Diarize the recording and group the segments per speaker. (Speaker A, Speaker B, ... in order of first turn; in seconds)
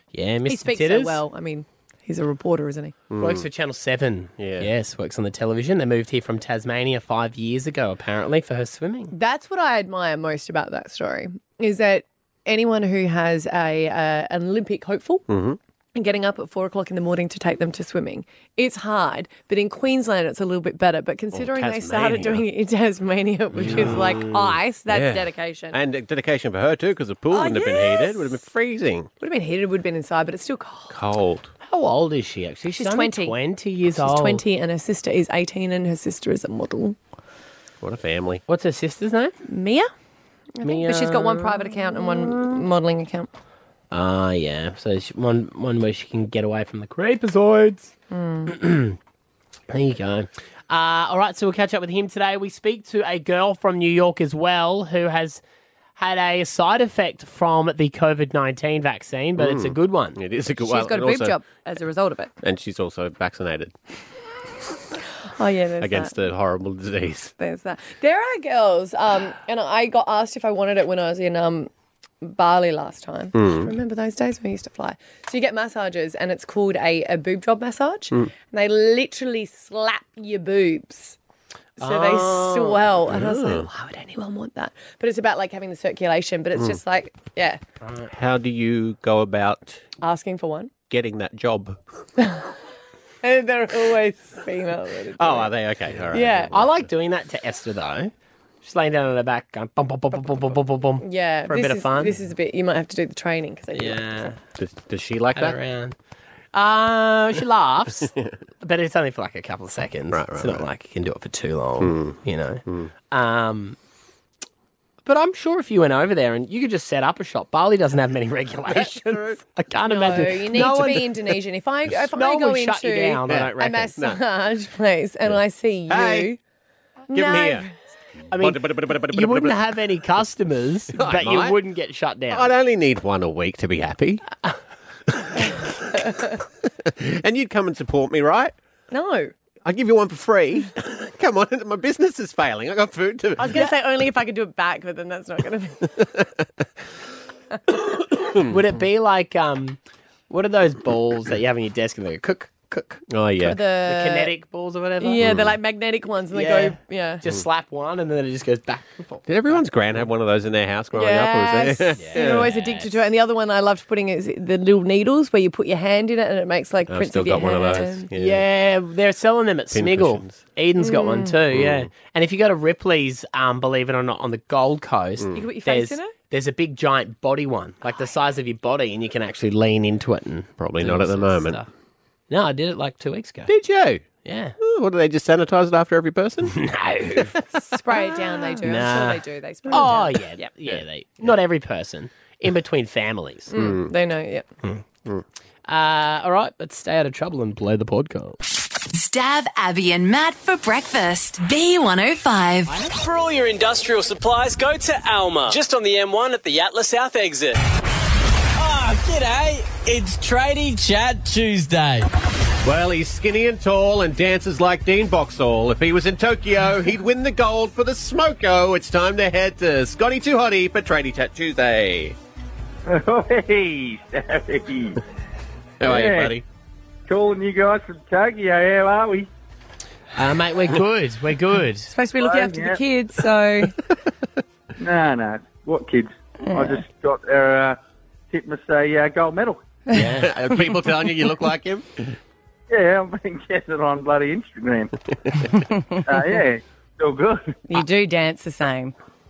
Speaker A: 0.1-1.2, 3.2-9.1, 31.6-34.4, 38.5-39.3, 40.6-42.6, 43.9-47.9, 48.5-49.0, 49.7-55.4, 56.0-60.2, 81.8-82.8, 96.5-98.1, 98.6-102.1, 103.7-104.4, 105.3-105.9, 106.5-113.8, 115.0-121.2, 122.1-123.9, 128.3-132.5, 148.4-149.8, 150.3-153.0, 153.8-155.3, 156.3-159.2, 162.0-163.0, 168.1-181.7, 182.3-183.5, 184.2-184.5, 186.5-187.4, 188.6-193.5, 195.7-198.4, 230.2-231.9, 239.9-240.3
Speaker B: 0.5-2.9, 9.1-15.2, 15.9-25.8, 27.3-28.4, 29.2-30.9, 32.7-33.4, 34.0-37.0, 39.5-39.9, 40.6-43.3, 48.1-48.5, 60.6-62.3, 65.4-66.2, 67.4-71.7, 72.2-81.2, 81.8-87.6, 90.0-90.7, 93.2-95.5, 96.1-96.6, 101.0-104.3, 119.8-126.4, 127.1-127.7, 138.9-139.3, 143.4-145.9, 153.4-154.3, 155.0-157.2, 160.9-168.1, 170.8-171.4, 175.3-176.1, 187.7-190.4, 193.5-194.4, 231.9-233.8, 236.5-236.8, 247.7-248.9
Speaker C: 3.1-3.4, 4.4-4.7, 15.3-15.6, 21.3-22.4, 23.5-29.1, 30.9-31.5, 37.8-38.4, 59.4-61.4, 62.4-63.7, 65.8-67.3, 73.3-73.7, 83.1-83.7, 88.1-89.8, 90.9-91.8, 95.2-96.7, 104.6-105.6, 108.1-108.3, 110.1-110.6, 111.8-112.9, 118.7-119.4, 123.3-124.2, 125.9-126.3, 127.1-127.7, 128.4-129.6, 130.9-131.6, 132.3-134.2, 135.2-135.6, 136.8-138.5, 139.6-143.6, 153.1-153.6, 155.2-155.6, 159.2-162.5, 166.9-168.4, 169.7-170.4, 171.5-171.9, 175.2-175.4, 180.6-181.6, 183.5-184.0, 184.6-186.6, 193.5-193.9, 212.6-222.2, 225.8-226.4, 240.0-242.1
Speaker D: 198.9-202.7
Speaker E: 202.8-207.6, 208.6-212.1
Speaker F: 222.8-225.0, 225.8-226.4, 227.1-229.3, 232.2-232.8, 234.8-237.8, 238.3-239.6, 242.7-244.9, 246.0-247.6